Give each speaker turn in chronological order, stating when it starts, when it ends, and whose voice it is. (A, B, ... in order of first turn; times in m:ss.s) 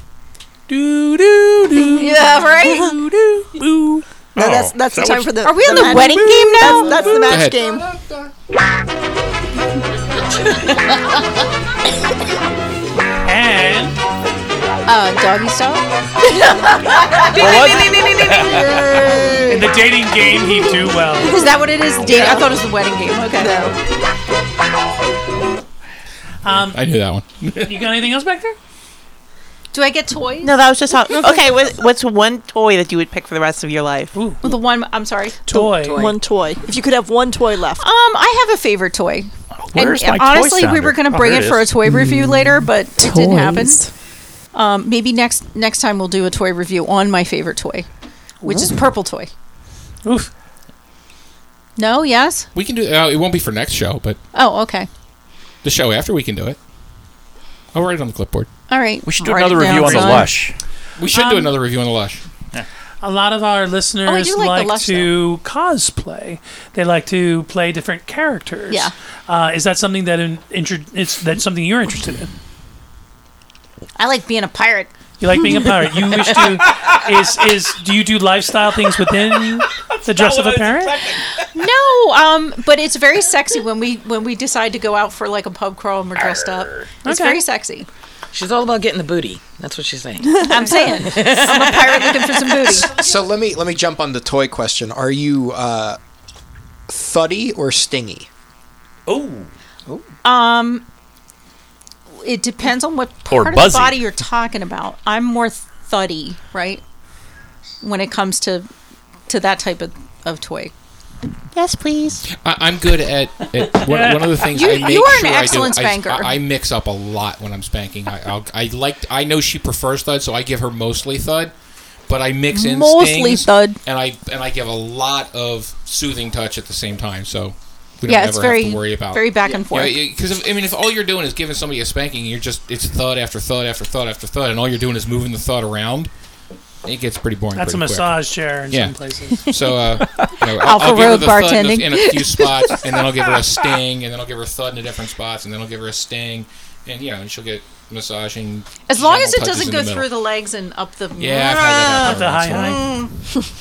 0:00.7-0:04.0 A
0:02.0-0:03.0 B
0:04.4-0:07.9 C
0:05.4-0:07.4 B
0:07.1-0:08.3 D
0:10.1-0:10.5 D
0:10.5-0:10.9 E
0:13.2-0:14.0 A
0:14.9-0:17.4 B
0:17.2-0:19.5 E
0:17.4-0:18.9 F
0:19.5-0:21.4 A
0:21.2-0:23.8 B
0:23.4-0:23.7 C
0:26.4-0:26.8 A
0:26.5-0:27.9 D
0:27.6-0:28.6 A
0:29.7-0:30.5 B
0:30.4-0:34.1 G
0:34.1-0:34.4 A
0:34.4-0:35.4 B
0:35.5-0:36.1 A
0:35.5-0:37.8 C
0:35.6-0:36.2 E
0:37.8-0:43.9 B
0:39.6-0:41.8 F
0:43.0-0:43.9 C
0:44.5-0:47.9 B
0:48.4-0:48.8 A
0:48.4-0:49.3 B
0:50.0-0:50.3 A
0:51.8-0:52.5 B
0:52.6-0:54.2 D
0:54.3-0:54.9 B
0:55.6-0:56.6 D
0:57.7-0:58.5 D
0:58.7-1:00.5 B
0:59.0-1:00.6 F
1:01.0-1:02.2 D
1:01.2-1:01.4 B
1:03.0-1:12.3 A
1:04.0-1:05.1 B
1:08.7-1:08.9 B
1:14.0-1:14.9 B
1:15.2-1:21.0 A
1:20.0-1:21.2 F
1:21.5-1:27.9 B
1:27.0-1:27.4 A
1:28.3-1:32.9 E
1:30.4-1:32.9 B
1:32.9-1:36.0 H
1:36.9-1:38.3 H
1:39.1-1:39.5 F
1:40.2-1:40.9 B
1:42.2-1:46.8 B
1:43.3-1:44.0 F
1:47.8-1:48.7 B
1:49.3-1:50.7 B
1:51.5-1:52.3 G
1:52.3-2:01.5 D
1:53.8-1:54.4 A
1:54.5-1:56.4 B
2:02.1-2:16.1 D
2:02.5-2:03.8 B
2:08.1-2:10.0 B
2:16.8-2:30.1 D
2:17.5-2:19.5 A
2:20.6-2:22.8 B
2:28.9-2:33.1 B
2:31.2-2:32.8 D
2:32.0-2:32.9 A